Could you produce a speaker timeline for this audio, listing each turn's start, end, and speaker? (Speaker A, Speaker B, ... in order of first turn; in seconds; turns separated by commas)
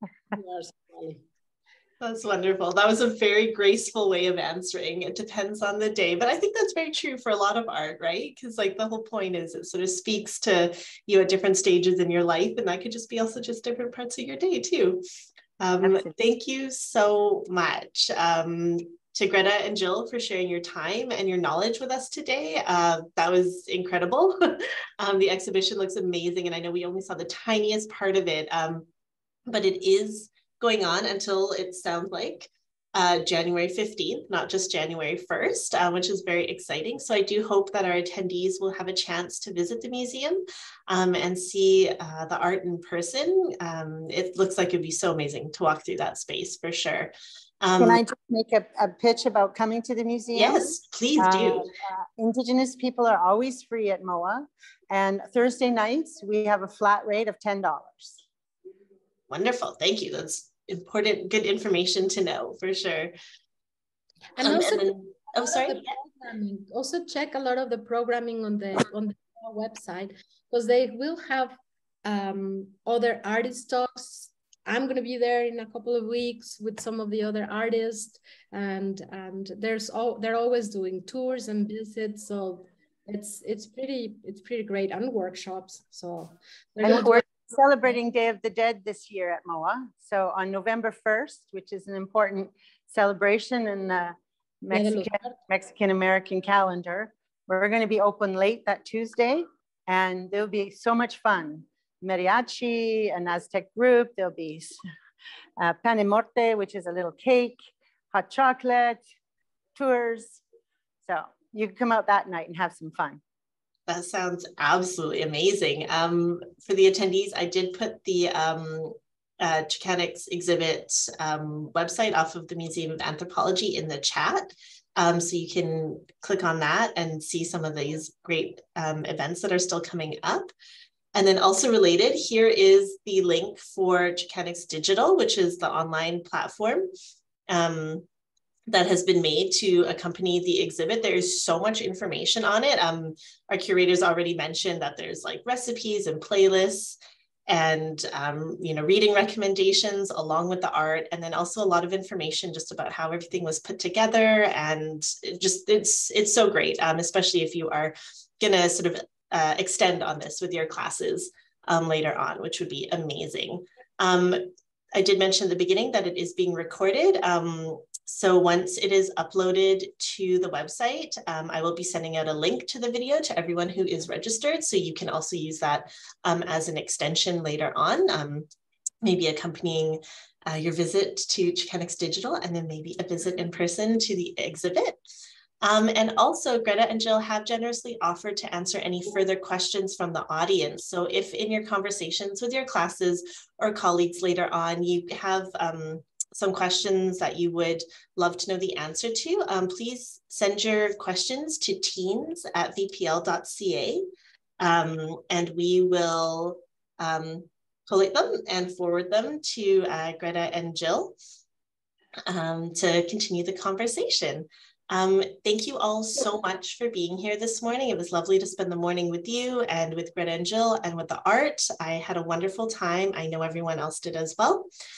Speaker A: 0.3-1.2, Speaker B: 2.0-15.0, Speaker B: 15.6-28.9, Speaker C: 15.8-16.1, Speaker B: 29.5-48.0, Speaker C: 47.8-58.2, Speaker B: 50.3-51.7, Speaker B: 59.3-63.1, Speaker A: 64.4-87.2, Speaker B: 64.4-65.9, Speaker C: 86.8-104.8, Speaker A: 94.7-95.3, Speaker C: 105.6-107.6, Speaker C: 108.1-109.0, Speaker C: 109.8-110.4, Speaker C: 111.0-113.2, Speaker B: 113.9-130.5, Speaker B: 131.1-136.9, Speaker B: 137.5-138.1, Speaker B: 138.7-147.0, Speaker B: 147.5-178.5, Speaker B: 179.0-185.0, Speaker B: 185.6-204.0, Speaker B: 204.6-211.1, Speaker B: 212.3-224.7